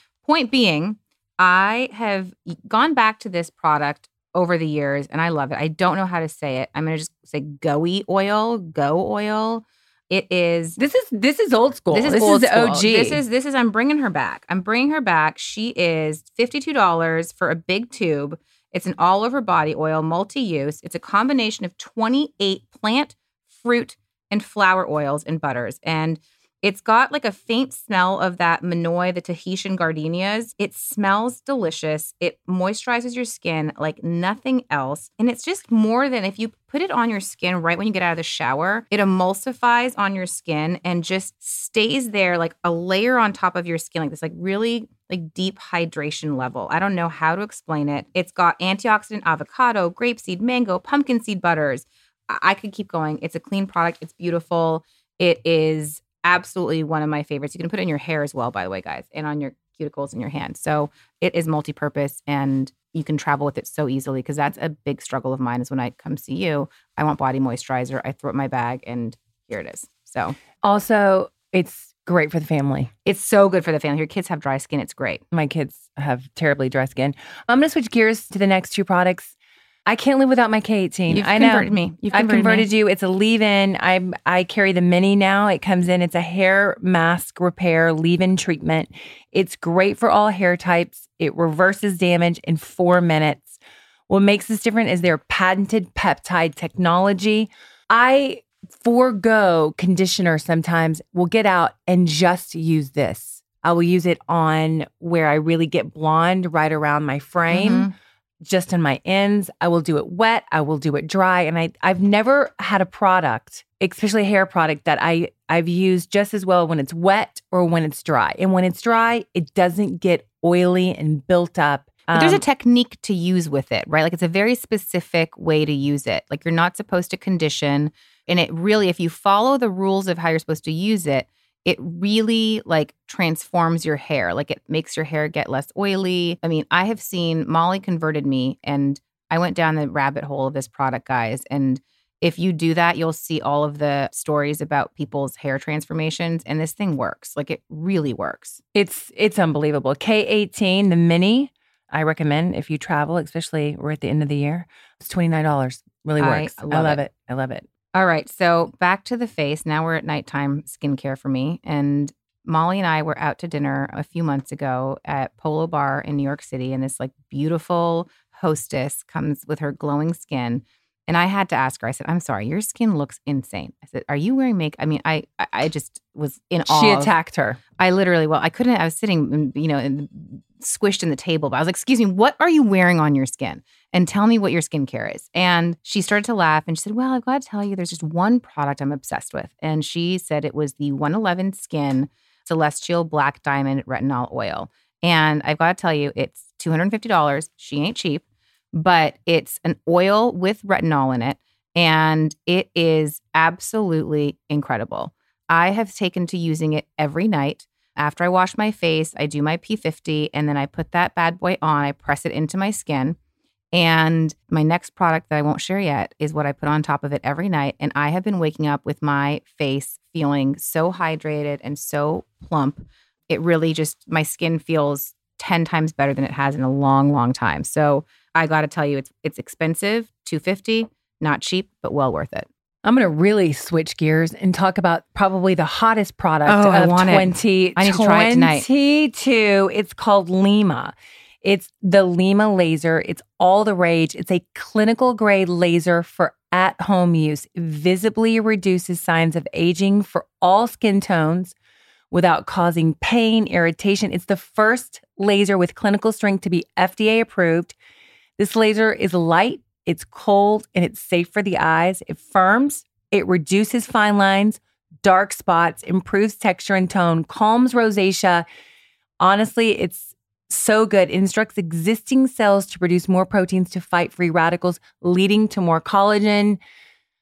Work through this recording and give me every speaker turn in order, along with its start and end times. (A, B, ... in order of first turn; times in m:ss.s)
0:00.2-0:10.8 A
0:10.8-0:13.2 B
0:11.9-1:10.4 A
1:10.6-1:12.9 B
1:13.0-1:15.2 A
1:15.3-1:19.4 B
1:19.9-1:33.6 B
1:21.1-1:22.7 A
1:34.1-1:47.9 B
1:47.5-1:47.9 A
1:48.4-2:02.4 B
2:02.1-2:28.6 A
2:28.8-2:37.7 B
2:36.2-2:37.0 A
2:37.9-2:57.1 A
2:56.6-2:57.6 B
2:57.8-3:33.2 A
3:33.7-3:52.5 A
3:52.8-4:11.6 B
3:56.5-3:58.7 A
4:12.1-4:17.8 B
4:18.4-4:28.4 B
4:29.2-4:36.6 B